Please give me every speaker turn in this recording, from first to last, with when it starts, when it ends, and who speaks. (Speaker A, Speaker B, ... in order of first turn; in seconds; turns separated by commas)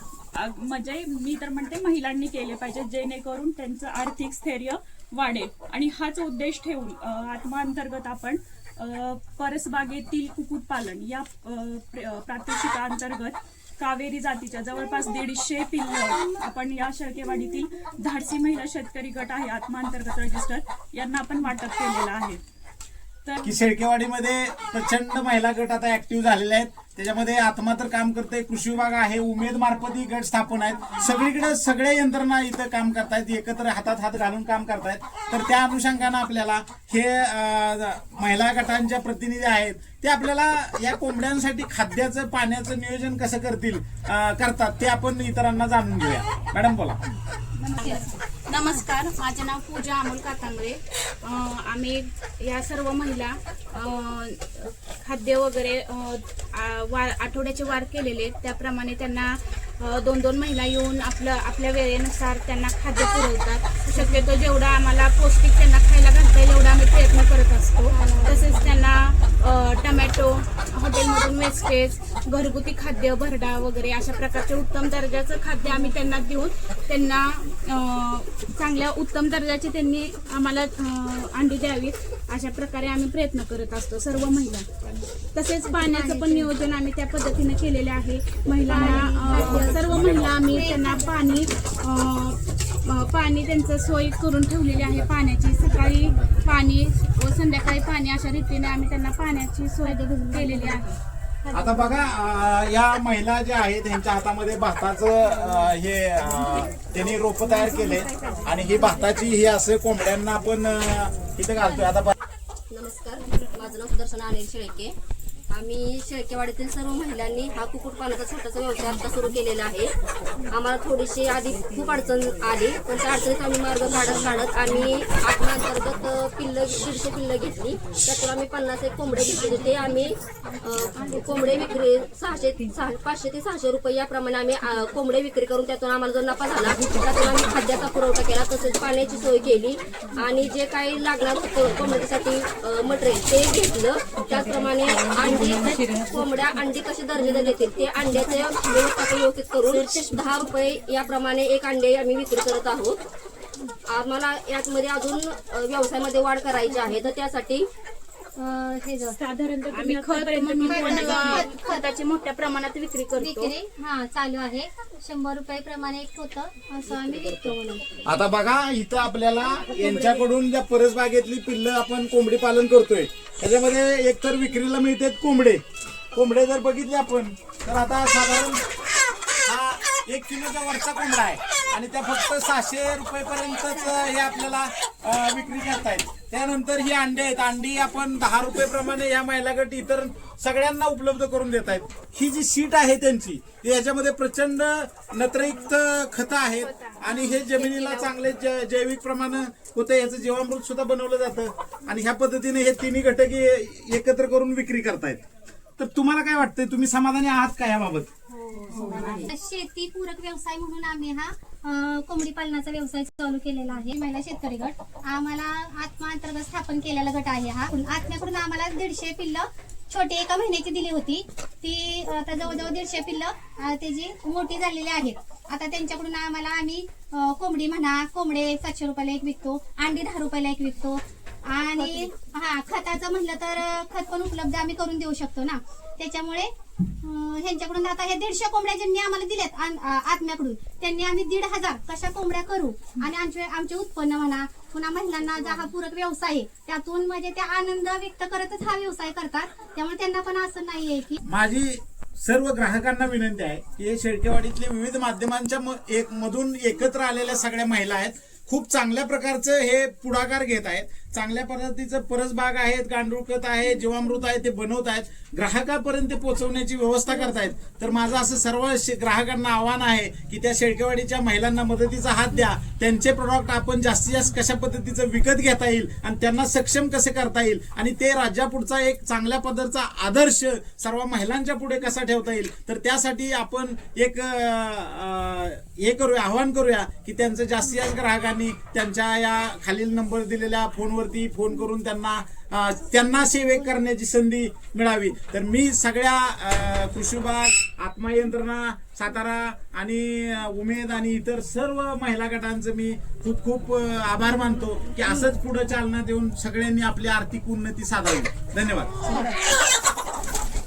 Speaker A: 0.3-22.4, Speaker A: 23.2-23.6, Speaker B: 23.4-47.0, Speaker C: 47.6-84.7, Speaker A: 47.8-48.1, Speaker D: 63.9-64.4, Speaker D: 67.9-68.9, Speaker D: 75.6-76.0, Speaker C: 85.3-101.0, Speaker D: 85.7-86.5, Speaker D: 88.7-91.4, Speaker B: 89.2-90.8, Speaker D: 99.8-100.8, Speaker D: 101.4-102.1, Speaker B: 101.5-112.1, Speaker E: 112.7-114.9, Speaker E: 115.5-119.9, Speaker E: 120.5-153.0, Speaker C: 149.9-150.2, Speaker E: 153.9-157.7, Speaker D: 156.7-157.0, Speaker D: 158.4-159.2, Speaker A: 159.2-161.5, Speaker C: 159.7-163.5, Speaker D: 160.7-161.9, Speaker D: 163.2-167.8, Speaker E: 166.9-167.6, Speaker B: 168.1-175.6, Speaker C: 169.8-170.1, Speaker B: 176.1-178.6, Speaker B: 179.4-205.2, Speaker C: 196.6-197.9, Speaker B: 205.8-208.1, Speaker D: 208.6-236.5, Speaker D: 237.0-251.2, Speaker B: 251.2-309.2